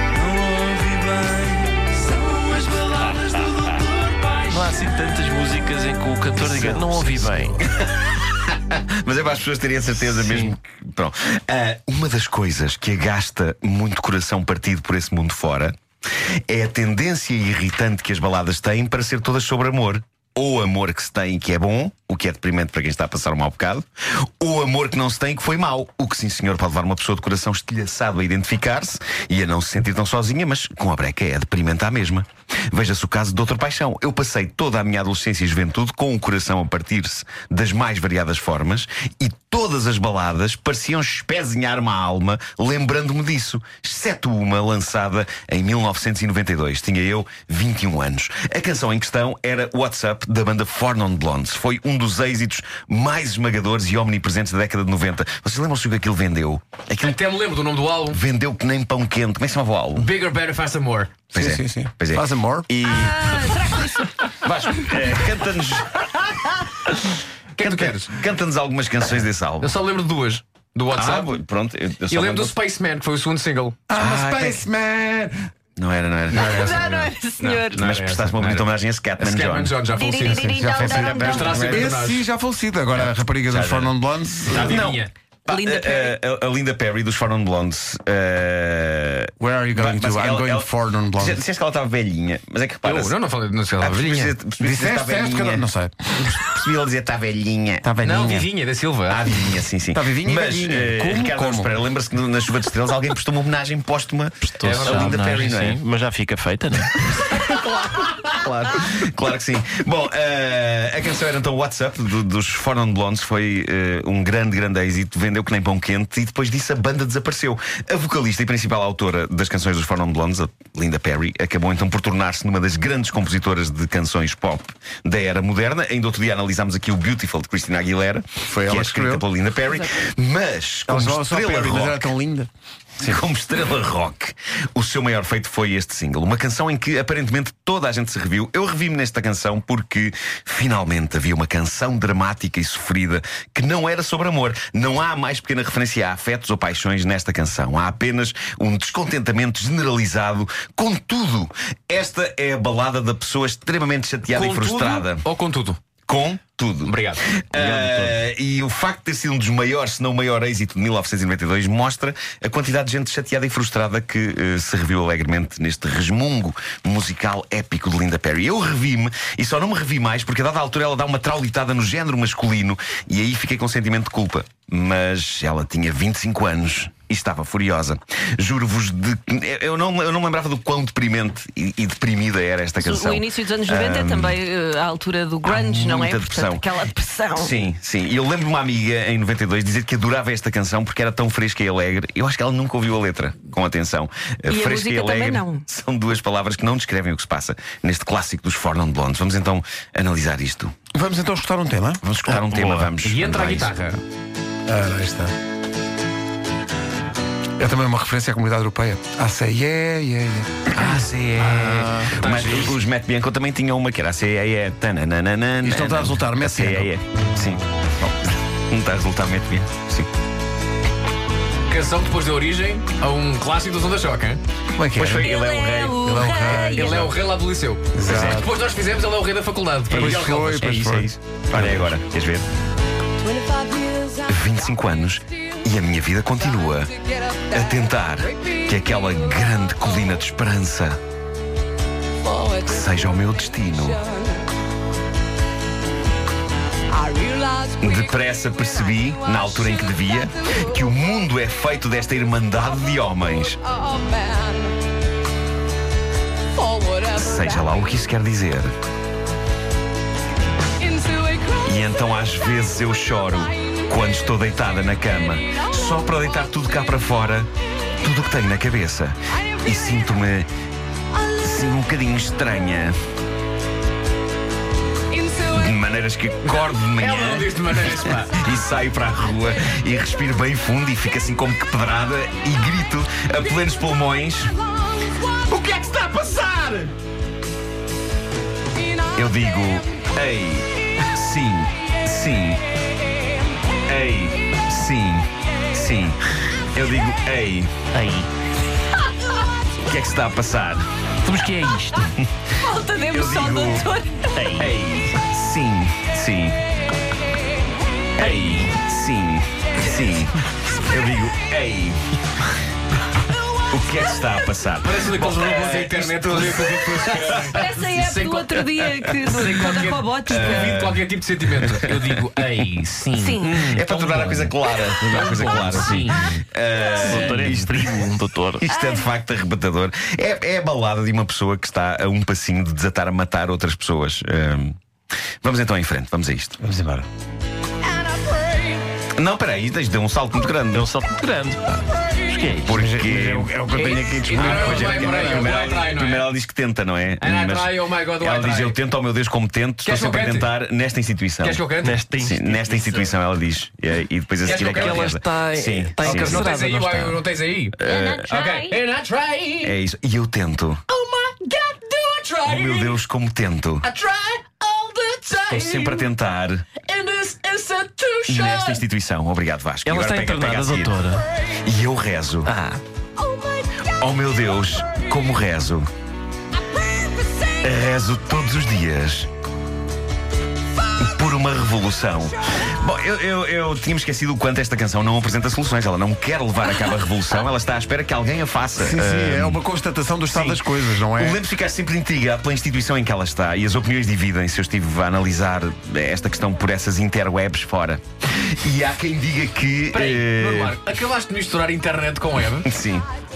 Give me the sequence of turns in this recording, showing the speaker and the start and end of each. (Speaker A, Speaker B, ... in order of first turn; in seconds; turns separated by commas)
Speaker A: 0.5-1.3, Speaker A: 2.2-4.4, Speaker B: 4.5-7.6, Speaker C: 6.4-15.8, Speaker B: 10.1-10.5, Speaker C: 16.5-57.2, Speaker D: 57.0-58.2, Speaker C: 58.1-60.1, Speaker D: 60.0-61.2, Speaker C: 61.3-63.6, Speaker A: 61.3-62.7, Speaker E: 62.9-64.1, Speaker C: 64.3-66.6, Speaker D: 67.5-68.1, Speaker C: 67.6-69.7, Speaker D: 69.6-71.3, Speaker C: 70.9-72.6, Speaker D: 72.1-73.8, Speaker A: 73.9-75.4, Speaker C: 74.0-74.6, Speaker C: 75.8-76.7, Speaker D: 76.3-82.2, Speaker A: 76.4-76.9, Speaker E: 76.5-77.8, Speaker C: 77.8-79.8, Speaker E: 79.9-81.8, Speaker A: 80.2-84.9, Speaker C: 83.0-83.9, Speaker D: 84.5-85.1, Speaker C: 84.6-93.2, Speaker E: 85.5-86.2, Speaker A: 89.4-91.4, Speaker D: 92.8-94.3, Speaker C: 93.8-95.7, Speaker A: 94.6-96.2, Speaker C: 96.2-97.9, Speaker A: 97.8-98.5, Speaker D: 98.0-99.2, Speaker C: 99.1-105.8, Speaker A: 99.9-101.7, Speaker B: 104.4-107.4, Speaker D: 104.6-105.5, Speaker C: 107.3-132.1, Speaker A: 128.5-129.3, Speaker A: 130.9-132.5, Speaker C: 133.0-155.3, Speaker D: 154.3-155.8, Speaker C: 156.1-184.4, Speaker D: 156.8-157.3, Speaker B: 157.6-158.2, Speaker E: 182.8-187.6, Speaker C: 185.4-186.7, Speaker C: 187.4-200.7, Speaker E: 194.5-195.6, Speaker A: 200.9-202.0, Speaker C: 202.0-203.7, Speaker B: 202.2-202.9, Speaker D: 203.0-204.0, Speaker A: 204.7-205.3, Speaker A: 207.6-210.9, Speaker C: 210.7-217.6, Speaker D: 211.4-212.8, Speaker B: 211.6-212.1, Speaker A: 215.6-216.9, Speaker C: 218.7-220.1, Speaker D: 221.7-224.4, Speaker A: 224.8-225.3, Speaker C: 225.0-226.0, Speaker E: 225.1-227.1, Speaker A: 226.0-227.1, Speaker D: 226.6-230.7, Speaker A: 227.9-228.5, Speaker C: 228.1-228.5, Speaker C: 229.9-232.5, Speaker A: 229.9-231.9, Speaker E: 233.2-234.2, Speaker C: 234.2-236.9, Speaker C: 237.5-241.0, Speaker E: 242.3-242.5, Speaker C: 242.6-244.0, Speaker E: 246.9-247.7, Speaker C: 247.8-253.6, Speaker E: 253.8-254.8, Speaker E: 256.6-257.0, Speaker C: 257.1-258.7, Speaker E: 260.9-261.5, Speaker C: 261.6-270.5, Speaker C: 271.2-273.0, Speaker C: 275.3-284.6, Speaker D: 276.8-278.4, Speaker A: 285.5-286.9, Speaker C: 285.8-286.2, Speaker C: 289.1-292.6, Speaker C: 293.9-296.2, Speaker C: 296.7-297.7, Speaker B: 297.9-298.3, Speaker C: 299.8-300.8, Speaker B: 301.2-302.2, Speaker E: 302.6-304.4, Speaker C: 303.0-303.9, Speaker B: 304.3-304.8, Speaker C: 304.6-306.6, Speaker C: 308.2-312.4, Speaker B: 308.2-308.7, Speaker C: 313.7-317.6, Speaker D: 314.8-324.1, Speaker E: 317.6-320.8, Speaker C: 320.3-322.0, Speaker B: 323.0-324.5, Speaker E: 323.2-323.6, Speaker C: 323.6-334.8, Speaker B: 325.1-326.1, Speaker D: 325.1-326.4, Speaker E: 326.9-327.3, Speaker B: 327.0-328.6, Speaker E: 328.7-329.1, Speaker C: 335.4-336.6, Speaker A: 336.6-337.1, Speaker C: 339.2-340.9, Speaker B: 340.7-341.6, Speaker B: 342.3-342.7, Speaker C: 342.6-351.6, Speaker A: 342.7-345.6, Speaker D: 343.7-346.3, Speaker D: 347.2-348.8, Speaker D: 349.8-350.5, Speaker D: 351.4-352.0, Speaker B: 351.8-353.1, Speaker C: 352.2-356.4, Speaker D: 354.4-355.1, Speaker B: 354.5-357.2, Speaker D: 356.0-359.8, Speaker C: 357.8-358.4, Speaker E: 357.9-358.8, Speaker C: 359.6-360.8, Speaker D: 360.9-363.0, Speaker C: 362.4-363.9, Speaker D: 363.8-366.1, Speaker C: 365.5-366.7, Speaker D: 366.8-368.8, Speaker C: 368.3-371.0, Speaker B: 369.9-371.3, Speaker C: 371.5-372.5, Speaker B: 372.5-372.8, Speaker C: 373.9-375.9, Speaker C: 377.6-379.3, Speaker C: 381.0-389.6, Speaker A: 388.8-391.4, Speaker C: 390.3-400.8, Speaker D: 399.9-402.7, Speaker C: 402.6-403.1